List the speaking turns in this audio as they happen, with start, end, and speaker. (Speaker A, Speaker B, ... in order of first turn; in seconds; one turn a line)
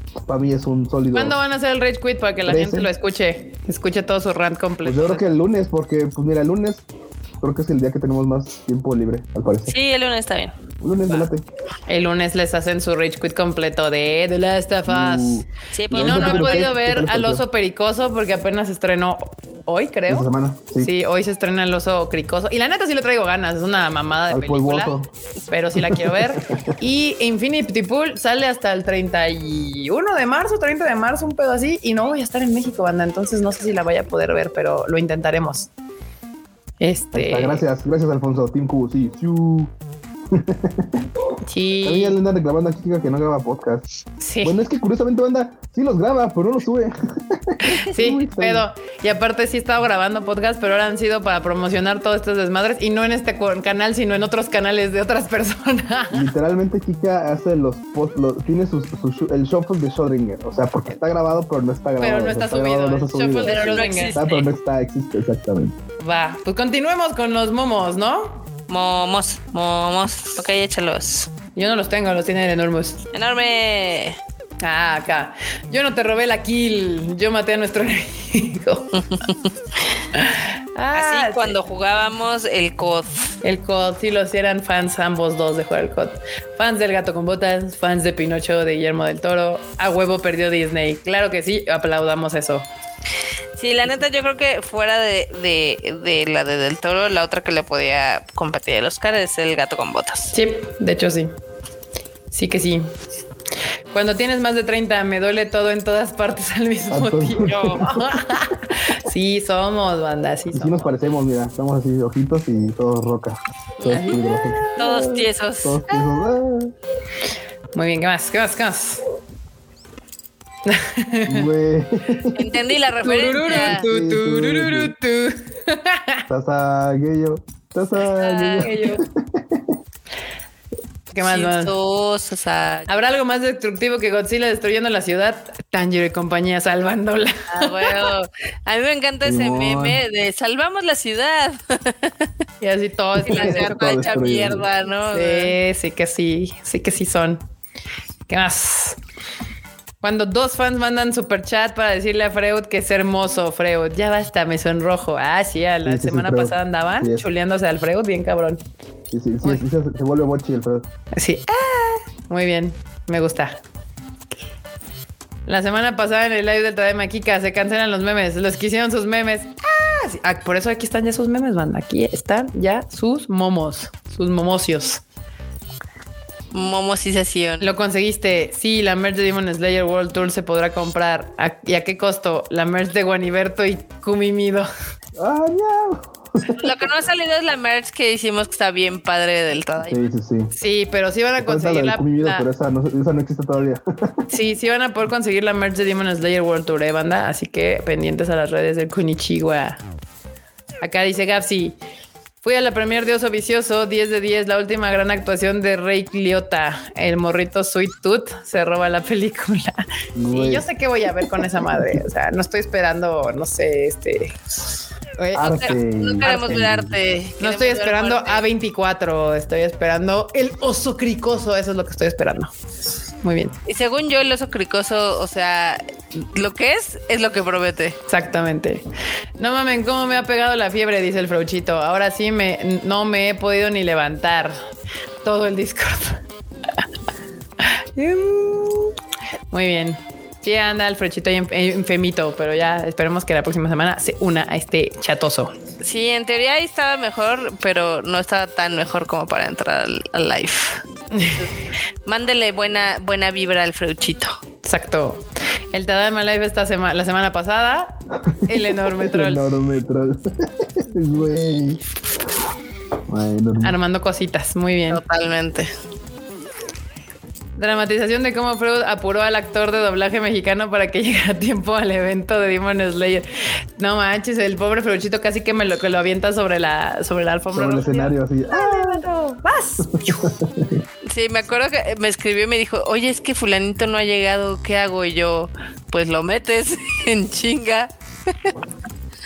Speaker A: 0.2-1.4
Speaker B: 1.1-5.3
Speaker A: 2.5-2.9
Speaker A: 4.8-6.8
Speaker A: 7.4-9.7
Speaker C: 9.7-10.5
Speaker A: 10.8-11.4
Speaker B: 11.9-20.3
Speaker A: 14.9-17.4
Speaker C: 15.7-16.7
Speaker A: 20.1-20.9
Speaker B: 20.8-24.9
Speaker A: 24.3-25.1
Speaker B: 25.5-35.7
Speaker A: 25.7-26.7
Speaker B: 36.8-37.6
Speaker A: 37.1-39.7
Speaker A: 40.3-41.0
Speaker B: 41.5-42.2
Speaker A: 41.8-43.8
Speaker B: 44.2-44.5
Speaker A: 44.4-48.6
Speaker B: 47.8-56.3
Speaker A: 56.1-65.7
Speaker B: 62.0-64.2
Speaker C: 63.4-64.5
Speaker B: 66.0-68.4
Speaker C: 68.7-71.3
Speaker B: 71.5-73.1
Speaker C: 73.1-74.2
Speaker B: 74.6-79.0
Speaker C: 78.9-79.5
Speaker B: 80.1-81.5
Speaker C: 80.9-83.3
Speaker B: 83.4-92.7
Speaker C: 93.6-100.3
Speaker B: 100.3-101.3
Speaker B: 102.3-102.9
Speaker B: 103.9-110.9
Speaker A: 106.9-108.2
Speaker C: 107.4-107.8
Speaker A: 110.5-116.7
Speaker C: 113.8-115.9
Speaker B: 114.0-114.3
Speaker B: 117.7-119.0
Speaker B: 120.7-121.5
Speaker A: 121.3-122.4
Speaker C: 122.3-123.8
Speaker B: 123.0-126.2
Speaker A: 123.4-124.9
Speaker A: 126.3-129.7
Speaker C: 128.2-128.8
Speaker B: 128.6-129.0
Speaker B: 131.1-131.7
Speaker C: 131.2-132.9
Speaker B: 132.9-137.9
Speaker C: 137.5-142.3
Speaker A: 139.2-140.0
Speaker B: 142.6-143.8
Speaker A: 143.2-144.7
Speaker C: 143.2-145.5
Speaker B: 145.1-147.4
Speaker B: 148.3-149.0
Speaker B: 150.0-158.6
Speaker A: 155.8-157.2
Speaker A: 159.1-160.9
Speaker B: 161.1-163.6
Speaker B: 165.5-175.0
Speaker C: 176.5-177.7
Speaker B: 177.6-184.7
Speaker A: 185.2-186.8
Speaker C: 186.5-190.1
Speaker A: 189.8-190.5
Speaker B: 190.5-192.5
Speaker A: 191.4-194.2
Speaker B: 194.3-199.8
Speaker B: 200.8-201.8
Speaker B: 202.4-214.3
Speaker A: 210.2-210.7
Speaker A: 211.2-212.0
Speaker B: 215.2-216.6
Speaker A: 215.3-216.9
Speaker C: 215.6-218.4
Speaker B: 217.4-222.5
Speaker B: 223.2-223.6
Speaker C: 223.6-228.0
Speaker B: 228.1-228.8
Speaker B: 229.4-234.6
Speaker B: 235.2-236.2
Speaker B: 237.6-238.9
Speaker B: 239.5-245.5
Speaker C: 245.8-254.4
Speaker B: 251.1-251.4
Speaker B: 254.6-259.4
Speaker A: 258.2-261.8
Speaker A: 263.1-263.8
Speaker B: 263.6-265.0
Speaker C: 264.9-265.7
Speaker B: 267.6-273.2
Speaker B: 273.8-280.3
Speaker A: 277.5-279.0
Speaker A: 279.8-280.8
Speaker C: 281.1-288.5